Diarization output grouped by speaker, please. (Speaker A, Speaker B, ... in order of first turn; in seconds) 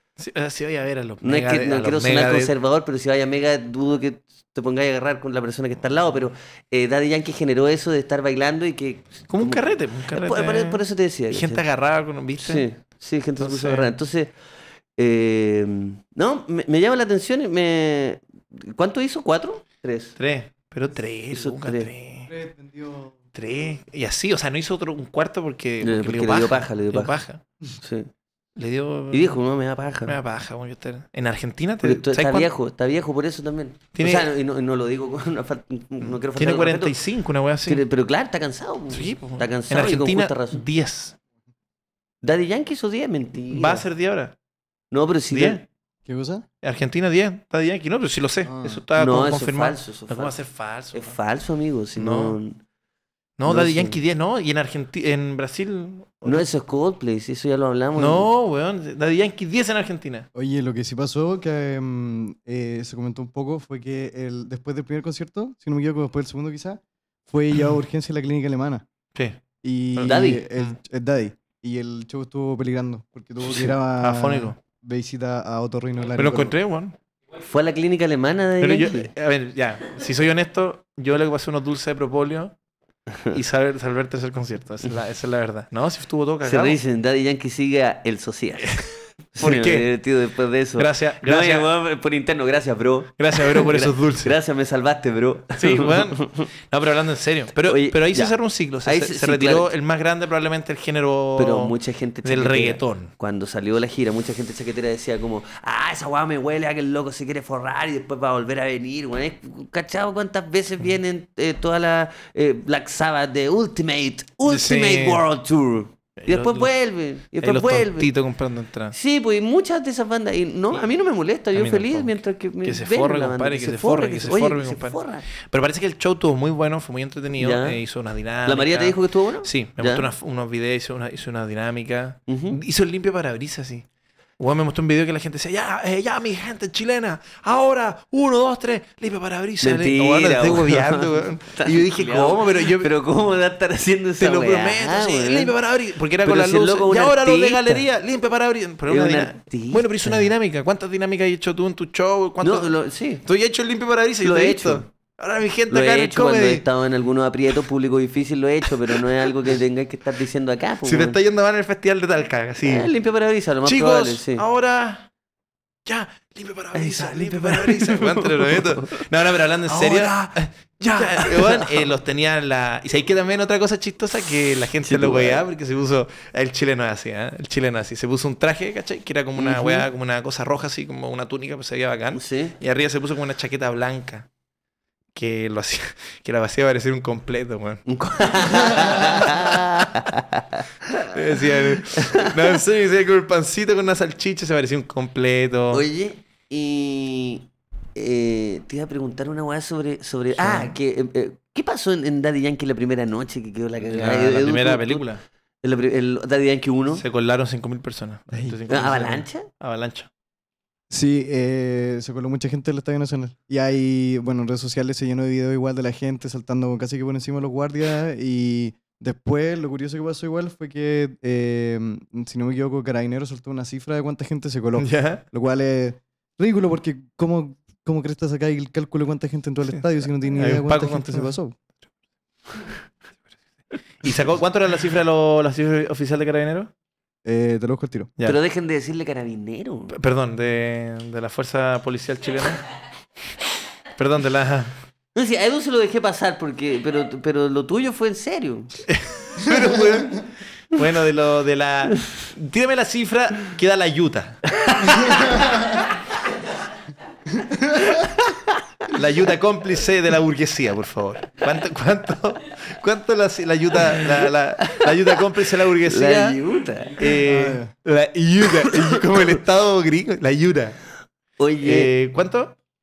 Speaker A: 0.2-2.5, 9.3-12.7, 13.4-13.9, 20.2-22.3, 23.3-27.4, 28.6-29.4, 30.1-32.5, 33.9-34.3, 36.0-37.8, 38.9-41.1, 43.5-44.4, 45.3-45.6, 46.6-51.1, 52.0-52.4, 53.4-56.4, 58.0-60.2, 69.1-69.4, 69.9-70.8, 73.5-74.6, 76.2-77.0, 78.6-82.5, 83.3-86.8, 88.6-89.9, 90.8-91.7, 93.2-94.4, 95.5-103.1, 114.5-115.2, 116.2-116.7, 117.4-119.0, 121.5-133.8, 134.4-142.9, 144.2-156.6, 160.8-162.9, 163.6-165.1, 165.8-184.3, 185.1-187.8, 188.6-189.9, 191.1-195.8, 200.3-200.7, 203.8-205.2, 206.9-210.1, 224.8-225.2, 230.3-231.3, 234.0-236.7, 239.9-242.6, 244.0-244.8, 248.9-255.4, 258.9-266.4, 267.0-270.8, 271.6-272.6
Speaker B: 1.2-11.6, 12.4-14.3, 15.0-20.2, 21.3-21.9, 25.8-27.1, 27.8-28.1, 29.1-30.2, 31.8-37.0, 37.6-40.6, 42.2-43.9, 44.9-45.6, 49.0-50.4, 50.9-52.6, 53.5-54.0, 56.2-58.3, 70.0-70.4, 77.4-79.1, 86.4-88.8, 89.3-96.5, 97.5-99.7, 101.4-118.1, 118.9-125.3, 127.3-127.8, 128.4-130.1, 132.3-132.6, 139.6-145.5, 146.2-147.8, 148.9-150.3, 152.4-153.2, 154.2-154.9, 155.7-161.2, 162.6-164.4, 166.7-169.0, 169.6-170.2, 170.9-171.9, 174.8-175.4, 179.3-179.8, 182.1-182.6, 187.9-192.6, 195.7-205.1, 205.6-207.0, 208.7-209.5, 238.2-239.9, 245.1-248.8, 254.7-255.4, 257.9-258.6, 263.9-267.1, 268.7-269.2, 271.4-271.9
Speaker C: 22.3-23.2, 46.0-46.4, 48.4-48.8, 60.3-68.8, 69.6-76.5, 210.9-231.5, 237.2-238.1, 267.2-267.7